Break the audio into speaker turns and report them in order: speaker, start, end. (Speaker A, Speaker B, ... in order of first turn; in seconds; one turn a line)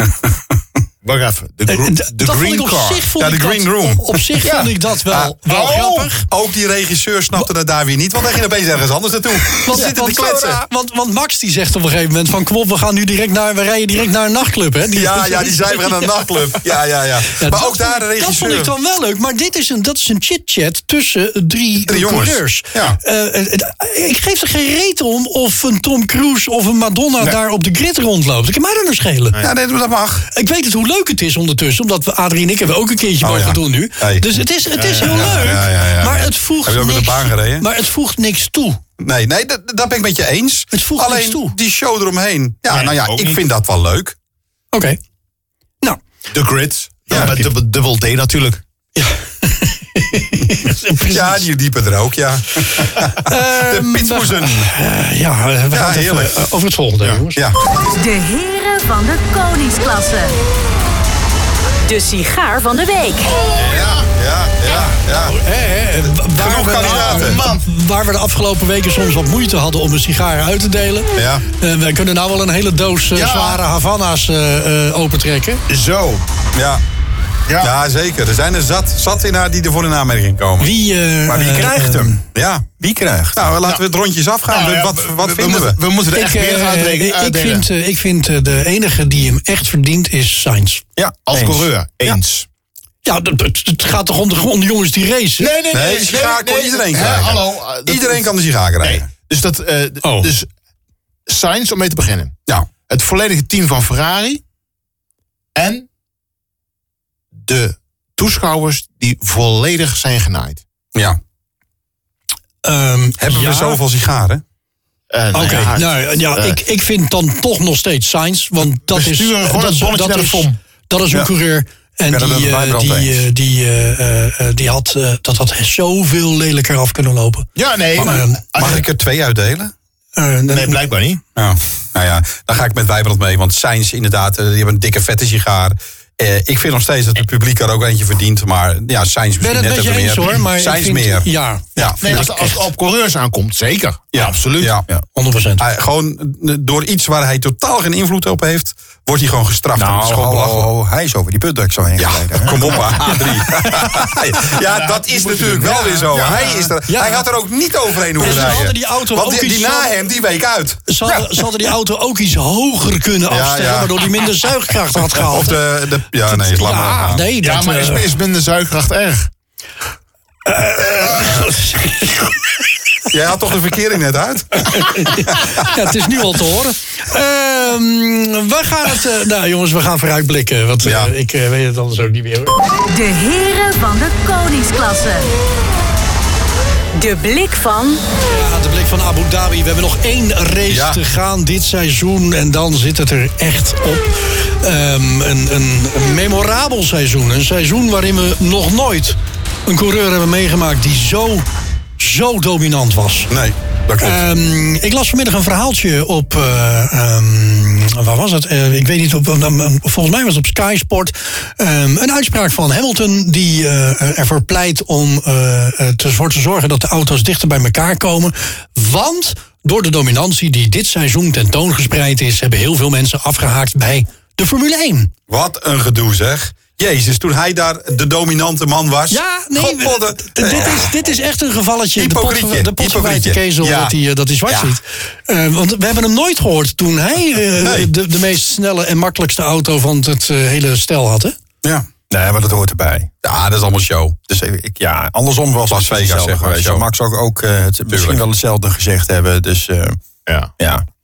Speaker A: 1.0-3.0
Speaker B: 1.7-6.3
Speaker C: 3.2-5.7
Speaker A: 4.5-4.7
Speaker A: 5.5-6.1
Speaker C: 6.2-10.6
Speaker B: 9.6-16.3
Speaker D: 9.7-10.6
Speaker C: 14.9-18.7
Speaker B: 17.3-29.4
Speaker C: 21.9-23.0
Speaker C: 29.4-30.3
Speaker B: 30.3-38.8
Speaker C: 33.2-34.3
Speaker A: 34.8-35.6
Speaker C: 35.0-37.7
Speaker C: 39.0-44.1
Speaker B: 40.7-41.5
Speaker A: 42.7-43.4
Speaker B: 44.7-45.0
Speaker A: 46.3-48.6
Speaker C: 47.1-47.4
Speaker B: 47.1-47.5
Speaker B: 49.0-51.5
Speaker C: 51.0-54.7
Speaker B: 52.6-57.4
Speaker C: 55.7-56.5
Speaker C: 57.4-57.8
Speaker E: 57.9-60.4
Speaker E: 61.9-63.5
Speaker A: 63.4-64.1
Speaker C: 63.6-65.4
Speaker B: 65.1-75.6
Speaker C: 66.1-67.4
Speaker A: 66.8-67.7
Speaker C: 71.2-71.4
Speaker A: 73.2-73.6
Speaker A: 75.7-76.3
Speaker C: 76.5-76.8
Speaker C: 77.6-80.7
Speaker B: 80.6-82.2
Speaker D: 81.3-82.2
Speaker C: 82.3-82.7
Speaker D: 82.8-83.5
Speaker C: 83.3-85.8
Speaker A: 84.5-87.7
Speaker B: 86.1-90.8
Speaker D: 91.0-92.2
Speaker A: 91.3-92.5
Speaker B: 93.0-95.5
Speaker A: 95.4-98.3
Speaker C: 95.7-99.1
Speaker A: 98.8-100.5
Speaker B: 100.0-100.3
Speaker A: 101.3-102.3
Speaker A: 102.9-104.4
Speaker A: 105.5-105.9
Speaker A: 107.4-110.6
Speaker B: 112.6-113.6
Speaker C: 113.2-114.4
Speaker A: 115.1-116.6
Speaker B: 115.3-128.8
Speaker A: 118.9-120.6
Speaker D: 122.1-123.3
Speaker A: 127.6-128.8
Speaker C: 128.0-129.7
Speaker B: 130.2-130.8
Speaker A: 130.5-131.2
Speaker C: 131.4-142.2
Speaker B: 139.4-142.7
Speaker A: 142.0-144.8
Speaker C: 144.1-144.9
Speaker B: 145.2-145.7
Speaker C: 145.6-150.7
Speaker D: 149.8-153.1
Speaker C: 152.0-161.0
Speaker B: 153.1-153.7
Speaker A: 154.5-156.8
Speaker B: 156.9-157.3
Speaker B: 158.2-159.9
Speaker B: 160.9-165.6
Speaker C: 163.3-164.3
Speaker C: 165.1-167.3
Speaker B: 166.3-168.1
Speaker A: 167.4-169.3
Speaker B: 170.4-172.4
Speaker C: 173.1-175.7
Speaker B: 174.6-182.6
Speaker C: 180.8-181.1
Speaker E: 182.8-185.3
Speaker E: 186.9-188.0
Speaker B: 188.3-201.5
Speaker C: 190.7-191.0
Speaker B: 202.0-203.3
Speaker C: 203.3-204.2
Speaker B: 204.0-225.1
Speaker C: 225.3-230.9
Speaker B: 229.1-241.4
Speaker C: 232.0-233.9
Speaker C: 234.5-234.8
Speaker C: 237.6-237.9
Speaker D: 242.1-243.1
Speaker C: 243.2-244.2
Speaker D: 244.3-250.0
Speaker C: 245.7-246.8
Speaker C: 247.9-248.2
Speaker A: 250.3-250.5
Speaker D: 250.6-250.8